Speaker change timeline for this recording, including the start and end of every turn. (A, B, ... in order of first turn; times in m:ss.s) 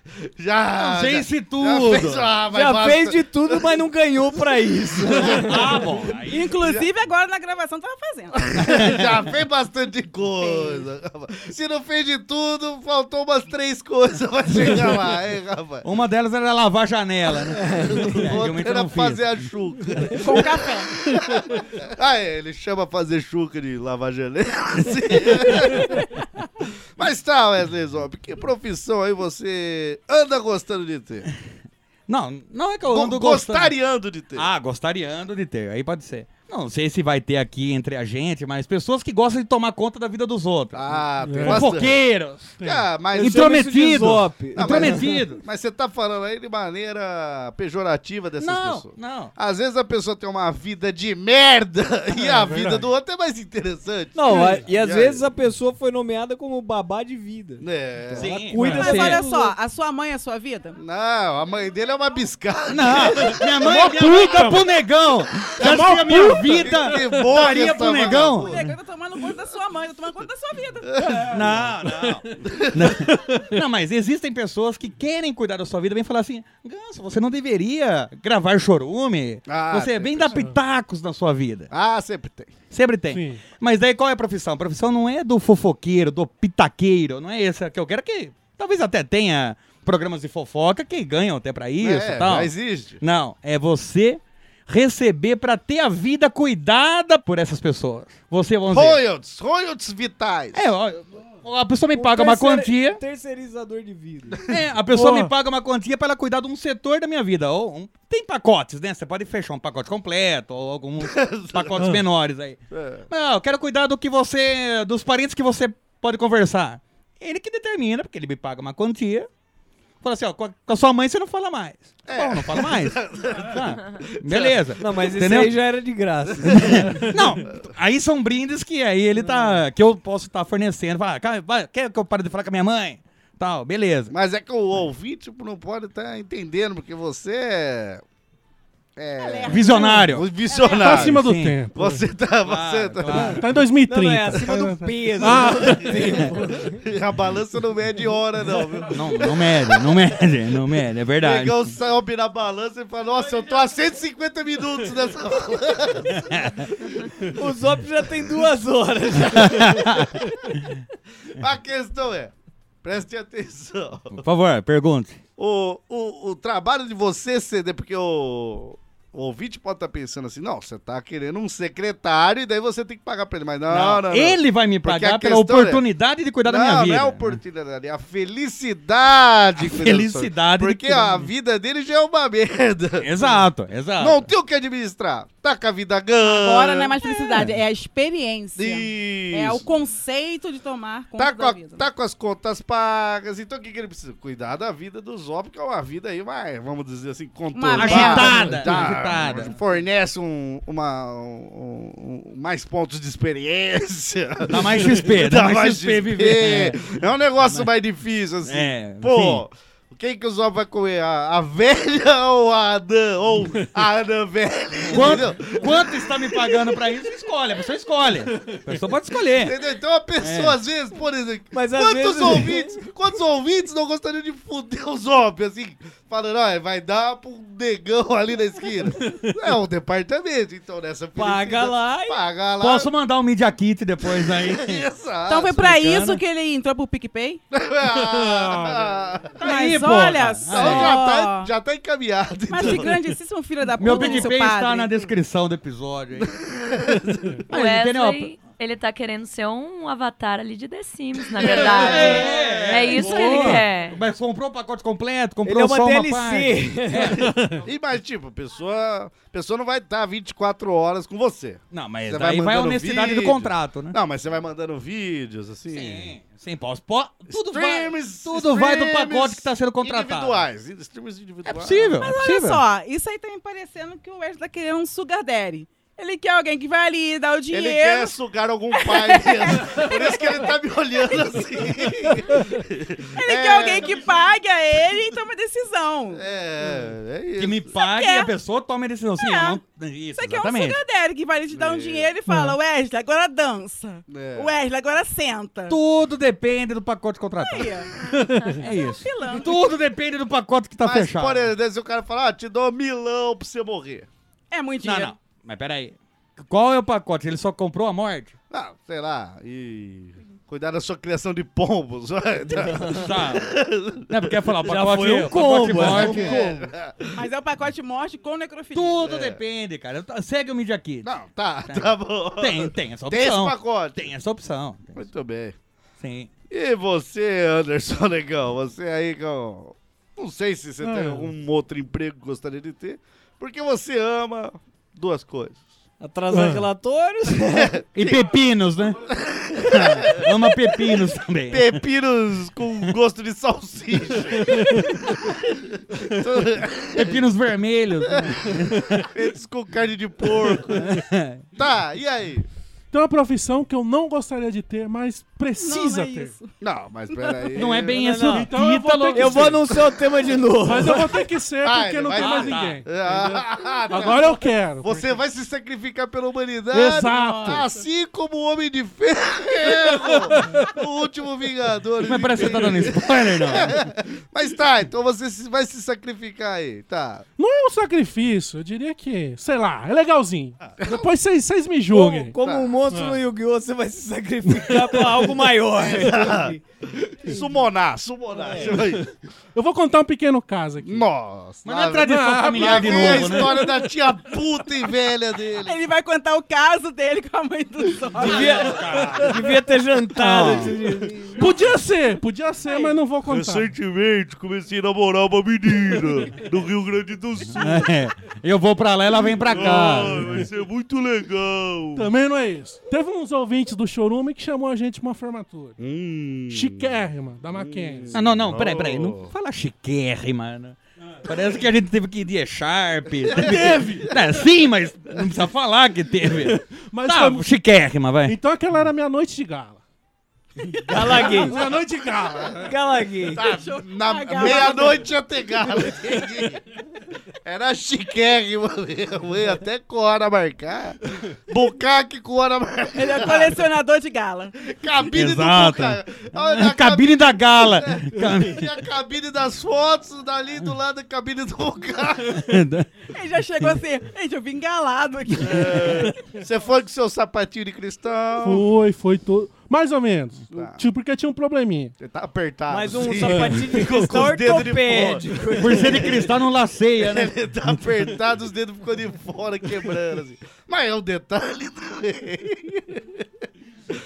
0:00.4-0:03.7 A
0:00.8-0:02.3 B
0:02.5-0:05.8 C
0:05.1-0:05.4 A
0:05.3-0:06.5 B
0:06.3-0:08.4 D
0:06.6-0:06.8 A
0:08.4-0:15.8 A
0:10.3-0:10.8 D
0:15.8-0:19.2 B
0:17.8-0:26.1 A
0:20.2-0:20.9 D
0:27.0-0:31.3 A
0:32.1-0:33.7 B
0:32.9-0:34.5 A
0:34.3-0:42.5 B
0:40.7-0:42.0 A
0:41.2-0:41.7 E
0:42.6-0:42.8 E
0:42.6-0:43.6 A
0:43.2-0:45.2 C
0:43.2-0:45.4 B
0:44.6-0:55.2 A
0:48.4-0:49.3 B
0:52.1-0:52.9 E
0:54.1-0:59.5 C
0:54.3-0:54.6 E
0:57.6-0:58.5 A
0:58.2-0:59.2 B
0:58.6-1:00.8 D
1:00.8-1:03.8 A
1:02.7-1:08.7 B
1:03.5-1:04.7 E
1:05.6-1:07.5 E
1:06.5-1:08.6 A
1:08.0-1:11.0 D
1:11.0-1:11.4 A
1:11.0-1:12.3 E
1:11.2-1:21.7 B
1:12.4-1:13.1 A
1:19.4-1:20.4 A
1:21.7-1:22.5 A
1:22.7-1:39.0 B
1:23.1-1:23.4 E
1:31.8-1:33.0 A
1:38.7-1:40.7 A
1:40.5-1:43.0 B
1:42.0-1:44.4 C
1:44.5-1:52.6 B
1:44.9-1:45.3 E
1:51.0-1:51.7 A
1:52.7-1:53.1 A
1:53.1-1:59.3 B
2:00.0-2:05.6 B
2:02.1-2:04.6 A
2:04.8-2:07.1 C
2:06.4-2:06.8 A
2:06.4-2:14.1 B
2:09.2-2:09.6 C
2:14.1-2:18.0 A
2:19.0-2:21.2 A
2:19.2-2:21.0 D
2:19.5-2:20.3 B
2:20.8-2:22.1 E
2:20.8-2:21.6 B
2:21.7-2:23.4 A
2:22.4-2:23.4 B
2:23.1-2:26.3 E
2:23.8-2:26.7 C
2:25.2-2:29.4 A
2:28.9-2:31.7 B
2:31.2-2:36.5 A
2:36.1-2:36.6 B
2:37.3-2:40.2 C
2:39.4-2:40.1 B
2:41.4-2:42.3 A
2:42.8-2:44.1 A
2:44.1-2:45.2 B
2:45.4-2:55.8 A
2:53.7-2:57.4 B
2:56.4-3:03.4 A
2:59.6-3:01.3 B
3:03.0-3:04.3 B
3:04.0-3:07.2 A
3:06.2-3:11.8 D
3:08.6-3:09.6 A
3:11.2-3:35.7 A
3:17.5-3:18.6 D
3:17.8-3:19.6 B
3:24.5-3:27.7 B
3:28.4-3:29.4 B
3:34.9-3:39.5 B
3:39.4-3:52.9 A
3:40.2-3:40.5 B
3:41.5-3:42.9 C
3:49.0-3:49.3 E
3:51.2-3:52.2 C
3:52.6-3:54.8 B
3:54.2-3:55.5 A
3:55.3-3:57.4 D
3:55.5-3:56.2 B
3:57.5-3:59.4 A
3:58.0-3:58.9 E
3:59.4-4:00.9 B
3:59.4-4:01.5 D
4:00.5-4:03.0 A
4:02.5-4:05.0 D
4:03.8-4:06.3 B
4:03.9-4:04.2 A
4:06.3-4:07.4 A
4:07.5-4:08.3 B
4:07.5-4:14.0 F
4:11.3-4:13.0 A
4:11.4-4:17.3 B
4:13.2-4:13.6 E
4:15.4-4:17.3 C
4:17.6-4:26.1 A
4:21.7-4:24.0 B
4:25.7-4:30.4 B
4:27.3-4:32.0 A
4:31.4-4:32.6 B
4:32.0-4:38.1 D
4:37.5-4:44.1 A
4:38.7-4:40.4 D
4:43.2-4:46.2 D
4:46.1-4:47.6 A
4:47.4-4:50.8 B
4:47.7-4:48.3 D
4:49.2-4:49.6 D
4:50.1-4:55.8 D
4:51.5-4:52.1 A
4:52.3-4:52.6 E
4:54.1-4:54.5 A
4:55.7-4:57.7 B
4:57.4-4:57.9 D
4:58.1-4:58.5 E
4:58.5-5:01.5 B
4:58.8-4:59.5 D
5:00.8-5:04.1 A
5:04.5-5:05.2 D
5:04.8-5:08.3 B
5:08.5-5:17.2 A
5:12.9-5:13.5 B
5:14.1-5:16.4 B
5:15.9-5:16.6 C
5:17.2-5:19.0 D
5:18.7-5:21.1 B
5:19.0-5:19.4 A
5:21.0-5:24.1 A
5:21.7-5:25.0 B
5:24.9-5:25.5 A
5:26.0-5:26.3 B
5:26.5-5:35.6 A
5:30.8-5:31.3 E
5:36.0-5:37.7 C
5:36.3-5:36.7 E
5:37.5-5:38.3 A
5:37.9-5:39.1 B
5:39.0-5:40.2 A
5:39.6-5:41.8 B
5:41.5-5:47.2 A
5:44.4-5:44.7 E
5:46.9-5:49.1 B
5:49.0-5:51.0 A
5:50.7-5:51.4 B
5:51.6-5:52.5 A
5:52.9-5:56.4 E
5:55.6-5:56.5 D
5:56.6-5:58.0 A
5:57.1-5:57.5 D
5:57.6-5:59.6 B
5:57.9-5:58.6 C
5:58.2-5:59.6 E
5:59.1-6:01.2 C
6:00.6-6:05.2 E
6:01.6-6:17.2 A
6:02.1-6:02.8 B
6:06.7-6:07.6 E
6:07.1-6:07.6 D
6:10.1-6:10.7 E
6:12.0-6:13.9 B
6:17.4-6:22.4 E
6:20.6-6:21.1 A
6:21.9-6:26.6 C
6:22.4-6:22.8 A
6:22.9-6:23.2 E
6:24.5-6:25.3 E
6:25.8-6:26.6 A
6:27.2-6:29.1 A
6:27.2-6:27.5 C
6:28.4-6:28.8 C
6:29.5-6:31.0 E
6:30.8-6:35.8 A
6:31.6-6:33.6 B
6:32.0-6:33.7 E
6:35.6-6:38.8 D
6:38.2-6:41.5 C
6:38.2-6:39.4 B
6:40.2-6:40.7 B
6:41.3-6:43.7 E
6:42.6-6:43.0 D
6:43.2-6:47.9 A
6:47.5-6:50.4 B
6:49.2-6:52.1 A
6:52.0-6:55.8 E
6:55.8-6:57.0 A
6:56.5-6:58.1 E
6:57.5-6:59.3 A
6:58.1-7:08.4 B
7:03.3-7:04.0 A
7:03.3-7:04.1 E
7:06.5-7:07.5 E
7:08.2-7:09.8 E
7:10.9-7:11.6 C
7:10.9-7:11.5 D
7:11.2-7:12.8 E
7:11.7-7:12.5 A
7:12.6-7:13.4 C
7:13.3-7:16.6 A
7:13.4-7:15.1 D
7:17.4-7:23.6 A
7:22.9-7:24.5 D
7:24.6-7:32.5 A
7:25.1-7:28.7 B
7:32.3-7:32.9 B
7:33.1-7:36.1 D
7:35.4-7:38.6 A
7:38.4-7:41.9 E
7:40.5-7:40.8 A
7:42.0-7:46.2 A
7:42.7-7:46.3 C
7:43.2-7:43.6 E
7:45.6-7:47.8 B
7:47.0-7:53.2 A